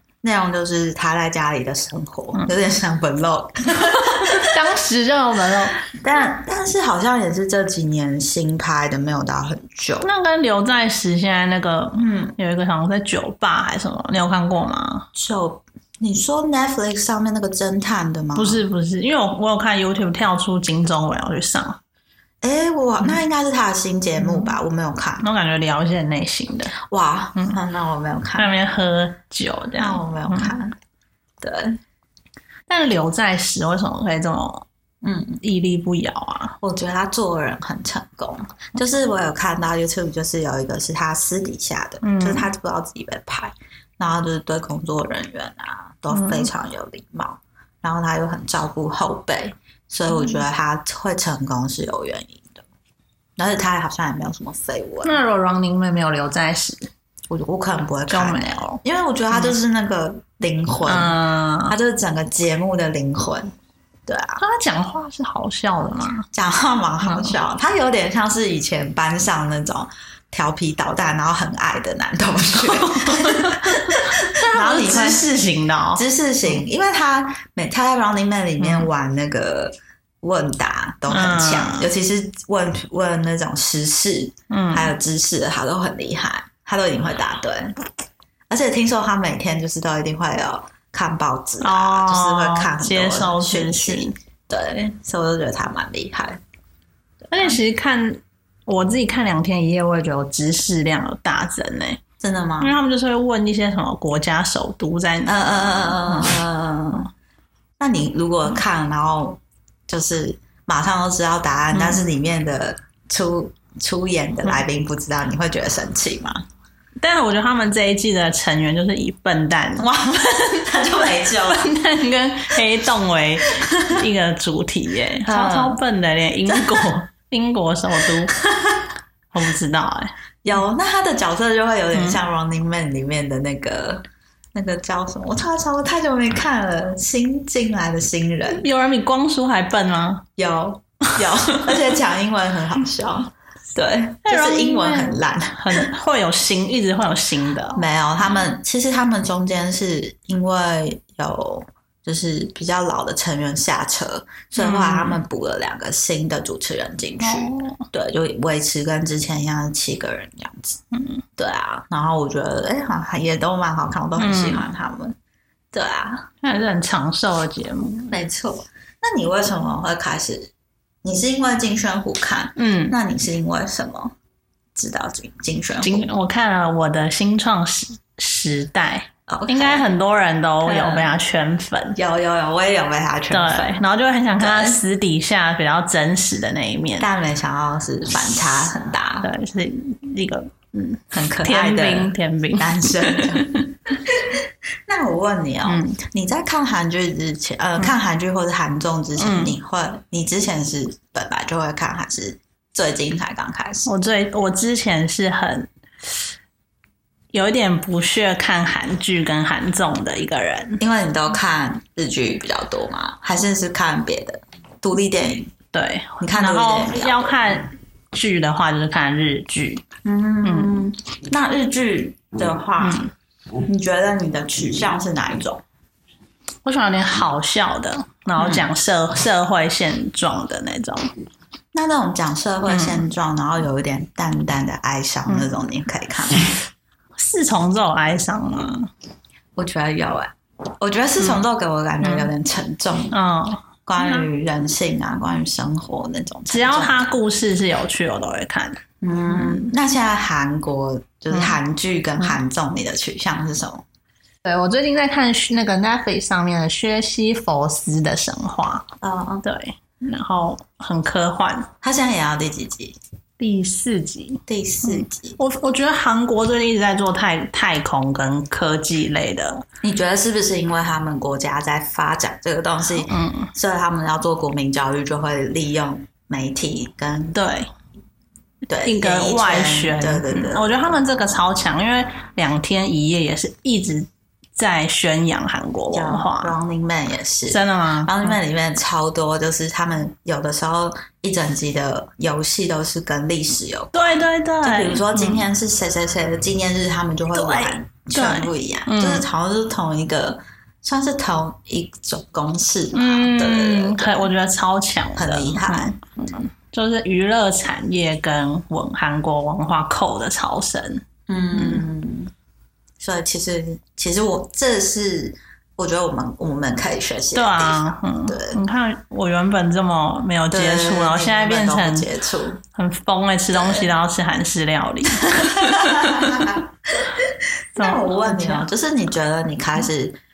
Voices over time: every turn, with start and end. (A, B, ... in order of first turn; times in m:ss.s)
0:00.2-0:04.6 A
0:04.0-0:05.9 B
0:05.8-0:10.1 A
0:10.0-0:15.1 B
0:12.0-0:12.4 A
0:15.2-0:18.6 A
0:18.4-0:21.8 B
0:22.4-0:25.2 A
0:24.2-0:24.5 B
0:25.2-0:26.7 B
0:26.8-0:28.6 A
0:28.4-0:30.6 B
0:29.8-0:30.8 A
0:31.4-0:31.8 A
0:32.7-0:34.7 B
0:35.0-0:35.4 A
0:35.4-0:36.6 B
0:36.6-0:52.7 A
0:42.0-0:42.5 B
0:46.1-0:46.5 B
0:50.1-0:50.4 B
0:53.4-0:55.2 A
0:55.0-0:56.9 B
0:57.3-1:03.5 A
0:58.1-0:58.8 B
1:00.9-1:01.8 B
1:04.1-1:04.4 A
1:04.4-1:06.3 B
1:06.3-1:15.3 A
1:07.0-1:07.3 B
1:12.7-1:16.0 B
1:16.0-1:27.8 A
1:18.6-1:18.9 B
1:21.1-1:21.9 B
1:24.5-1:24.9 B
1:28.5-1:36.4 A
1:31.6-1:34.2 B
1:37.3-1:42.0 B
1:37.3-1:37.6 A
1:42.2-1:42.8 A
1:42.6-1:46.3 B
1:45.3-1:47.1 A
1:47.8-1:56.4 A
1:51.7-1:52.0 B
1:57.0-2:00.7 B
1:59.8-2:01.7 A
2:01.5-2:08.3 B
2:03.6-2:04.0 A
2:05.3-2:05.8 A
2:06.5-2:06.9 A
2:08.1-2:08.8 A
2:09.3-2:10.1 B
2:10.4-2:18.6 A
2:11.9-2:12.2 B
2:18.5-2:20.2 B
2:20.4-2:25.9 A
2:24.2-2:27.8 B
2:27.8-2:40.8 A
2:34.6-2:35.2 B
2:37.2-2:37.8 B
2:40.9-2:41.2 B
2:41.4-2:45.2 A
2:44.2-2:44.6 B
2:45.7-2:46.3 A
2:46.4-2:48.1 B
2:48.1-2:50.5 A
2:51.0-2:54.1 A
2:52.6-2:53.0 B
2:54.8-2:56.0 A
2:55.8-3:02.0 B
2:59.3-2:59.9 A
3:00.6-3:01.2 A
3:02.0-3:03.9 A
3:03.3-3:07.1 B
3:04.4-3:04.8 A
3:07.0-3:09.3 A
3:09.2-3:13.7 B
3:11.1-3:23.9 A
3:15.6-3:16.0 B
3:19.2-3:19.6 B
3:23.9-3:25.7 B
3:27.3-3:30.8 B
3:30.8-3:35.5 A
3:35.7-3:39.8 B
3:36.2-3:37.4 A
3:40.0-3:43.0 A
3:40.4-3:40.8 B
3:42.8-3:43.1 B
3:43.6-3:45.6 A
3:46.6-3:51.1 B
3:48.4-3:48.7 A
3:51.7-3:56.6 A
3:52.7-3:53.0 B
3:57.2-3:58.9 B
3:59.6-4:03.2 A
4:01.2-4:01.4 B
4:02.0-4:02.3 B
4:03.1-4:04.3 B
4:03.9-4:07.1 A
4:06.5-4:09.6 B
4:09.0-4:13.8 A
4:11.3-4:11.6 B
4:14.4-4:18.9 B
4:19.0-4:19.4 A
4:19.4-4:21.7 B
4:21.8-4:23.0 A
4:23.4-4:29.6 B
4:24.5-4:25.4 A
4:29.8-4:37.4 A
4:33.1-4:33.5 B
4:37.3-4:37.7 B
4:38.7-4:41.0 A
4:38.8-4:46.5 B
4:45.9-5:04.3 A
4:47.5-4:48.4 B
4:53.9-4:55.5 B
4:57.3-4:59.3 B
5:02.9-5:11.8 B
5:05.2-5:06.0 A
5:11.3-5:12.3 A
5:13.0-5:18.6 A
5:17.3-5:22.1 B
5:20.5-5:22.6 A
5:22.7-5:26.5 B
5:23.5-5:23.9 A
5:25.2-5:30.2 A
5:27.8-5:28.7 B